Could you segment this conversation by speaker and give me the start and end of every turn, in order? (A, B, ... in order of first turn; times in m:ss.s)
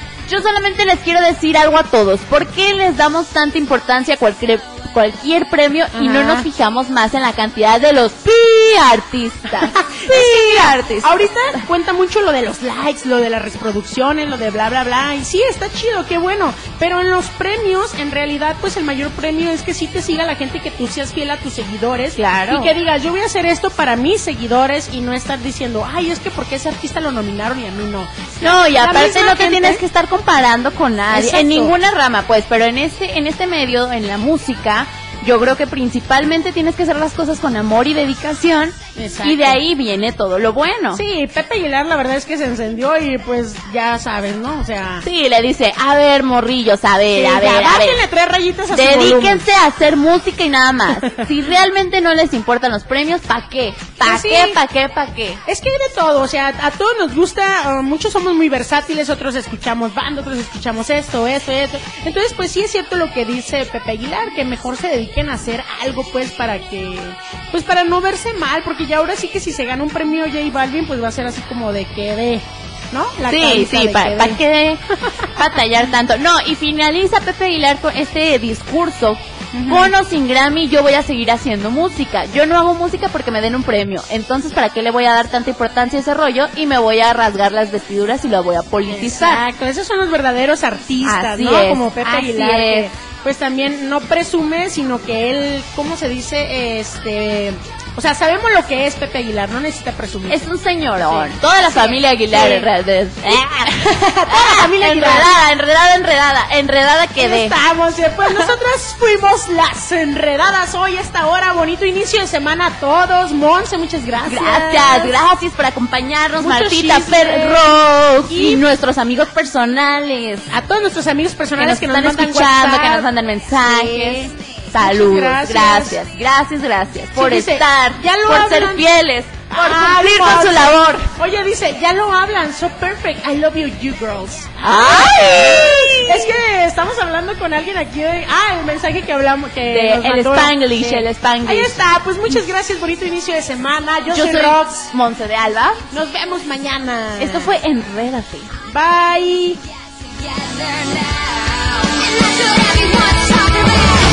0:00.2-0:11.2 A
0:05.9-0:06.5 B
0:09.6-0:29.8 B
0:22.1-0:22.7 A
0:28.4-0:41.0 A
0:31.1-0:31.7 B
0:38.9-0:39.6 B
0:40.9-0:45.0 B
0:45.0-0:48.0 A
0:47.1-0:49.4 B
0:48.7-0:55.4 A
0:50.9-0:51.2 B
0:54.0-0:54.6 B
0:55.4-1:14.4 B
1:13.3-1:29.4 A
1:19.5-1:19.9 B
1:28.9-1:42.7 B
1:31.0-1:32.9 A
1:40.3-1:47.6 A
1:43.2-1:45.3 B
1:47.2-1:55.2 B
1:48.2-1:48.5 A
1:54.2-2:00.5 A
1:56.4-1:57.8 B
1:58.3-1:58.6 B
2:00.5-2:06.0 B
2:01.6-2:11.1 A
2:07.1-2:24.9 B
2:14.6-2:16.4 A
2:19.7-2:22.4 A
2:24.1-2:25.8 A
2:25.9-2:27.6 B
2:27.2-2:28.6 A
2:28.7-2:29.6 B
2:31.9-2:33.9 B